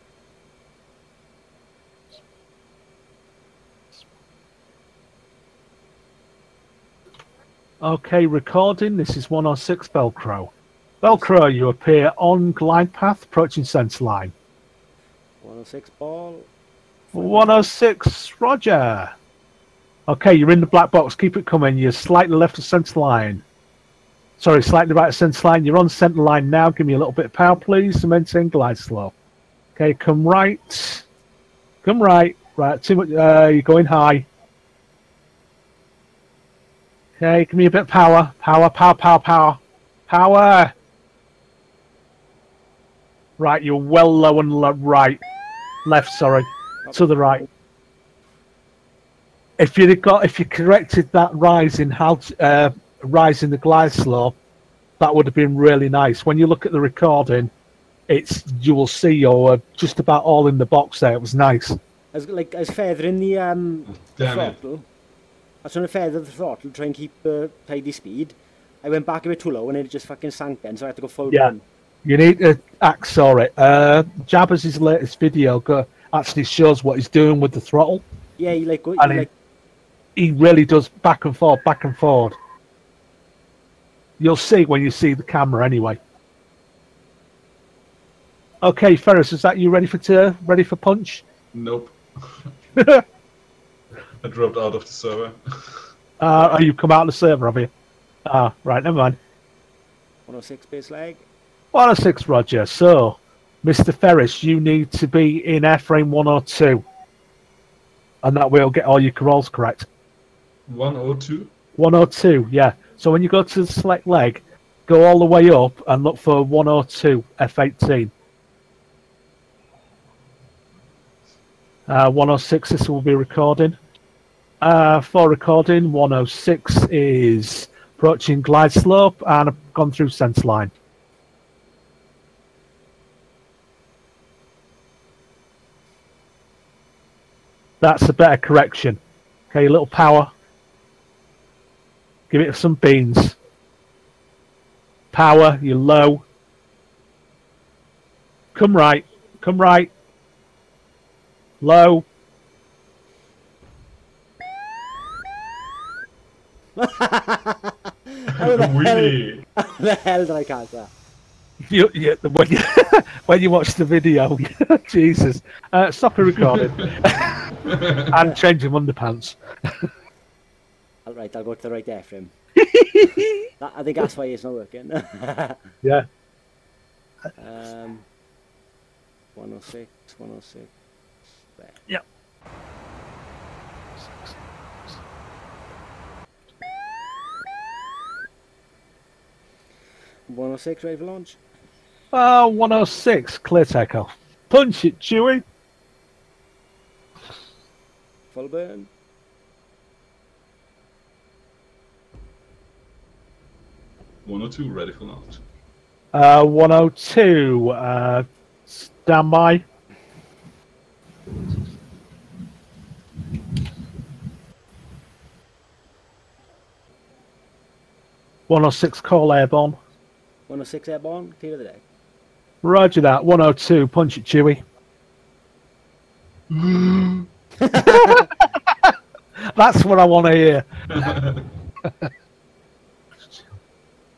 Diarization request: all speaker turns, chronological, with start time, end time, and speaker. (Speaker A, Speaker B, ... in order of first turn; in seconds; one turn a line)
Speaker A: 7.8-14.3
Speaker B: 11.1-11.3
Speaker B: 15.4-16.5
Speaker B: 17.1-17.6
Speaker A: 17.1-19.1
Speaker A: 20.1-23.4
Speaker A: 24.4-29.1
Speaker A: 29.8-31.0
Speaker A: 31.8-34.2
Speaker A: 37.2-40.7
Speaker A: 43.4-45.2
Speaker A: 45.8-47.5
Speaker B: 46.8-47.3
Speaker A: 49.6-54.4
Speaker A: 55.0-57.5
Speaker A: 58.1-61.8
Speaker B: 62.1-64.8
Speaker C: 63.9-64.6
Speaker B: 65.6-71.6
Speaker A: 72.0-78.0
Speaker B: 78.4-79.3
Speaker A: 79.0-79.2
Speaker A: 80.2-82.3
Speaker A: 84.2-86.0
Speaker A: 88.6-91.2
Speaker C: 91.5-92.5
Speaker A: 92.8-93.0
Speaker C: 94.2-95.8
Speaker A: 96.2-97.7
Speaker A: 98.2-99.2
Speaker B: 100.3-101.2
Speaker A: 101.7-106.8
Speaker A: 108.2-109.9
Speaker C: 110.7-111.5
Speaker A: 111.8-118.1
Speaker A: 121.9-123.8
Speaker A: 124.6-130.7
Speaker A: 137.8-139.0
Speaker A: 139.5-140.3
Speaker A: 142.3-143.4
Speaker A: 145.1-146.2
Speaker A: 148.5-149.9
Speaker A: 151.6-152.1
Speaker B: 156.8-160.9
Speaker C: 158.4-159.4
Speaker A: 161.7-167.4
Speaker C: 166.4-166.9
Speaker C: 167.7-168.1
Speaker A: 168.1-169.8
Speaker B: 171.1-172.3
Speaker A: 172.6-173.4
Speaker B: 173.6-175.7
Speaker B: 177.4-178.0
Speaker B: 179.3-180.7
Speaker B: 190.3-191.4
Speaker A: 192.1-195.4
Speaker B: 198.3-198.9
Speaker C: 204.2-205.4
Speaker A: 206.1-209.6
Speaker A: 218.5-219.8
Speaker B: 220.5-221.8
Speaker A: 222.6-224.6
Speaker C: 226.5-227.3
Speaker B: 227.6-228.3
Speaker A: 227.7-230.7
Speaker C: 230.9-231.4